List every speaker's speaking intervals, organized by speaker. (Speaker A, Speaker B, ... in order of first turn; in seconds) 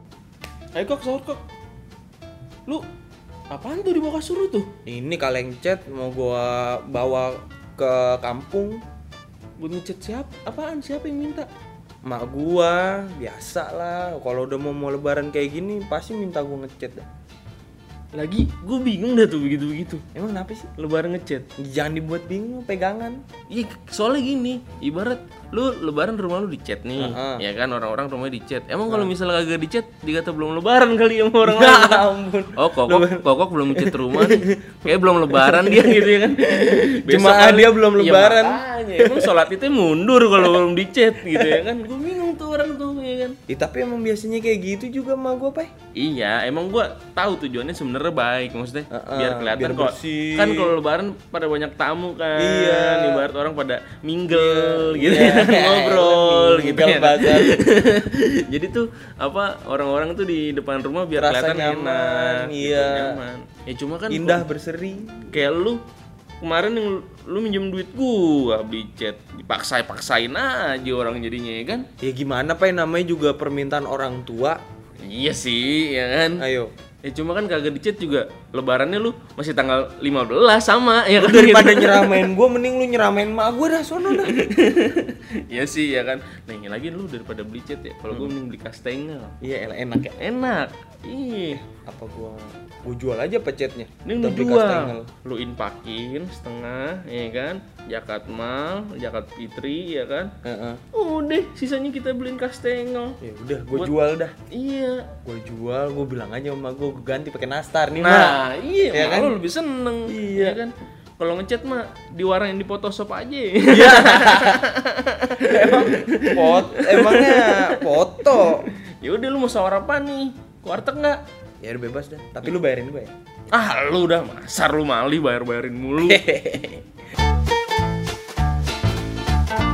Speaker A: 0.7-1.4, 3.5-4.7, 9.6-11.5, 18.1-20.0, 20.7-21.5, 23.5-43.4, 45.9-64.4, 65.3-65.8, 66.4-71.9, 75.0-76.5, 77.0-82.2, 84.1-89.3, 89.9-91.6, 94.0-100.3, 100.9-103.2, 104.5-105.1, 108.0-121.2, 123.5-126.2
Speaker B: 4.8-8.8, 12.0-17.0, 20.1-20.7, 21.6-23.2, 27.0-27.4, 31.4-36.1, 37.0-39.3, 41.3-41.6, 43.5-45.7, 48.9-50.7, 52.4-53.3, 54.3-57.6, 61.1-63.2, 64.1-65.3, 72.0-74.6, 76.4-76.7, 81.2-84.4, 89.4-90.1, 91.5-95.1, 100.4-100.8, 103.2-104.3, 105.2-109.4, 110.1-110.6, 113.7-114.6, 115.5-118.7, 121.6-123.1, 126.0-126.8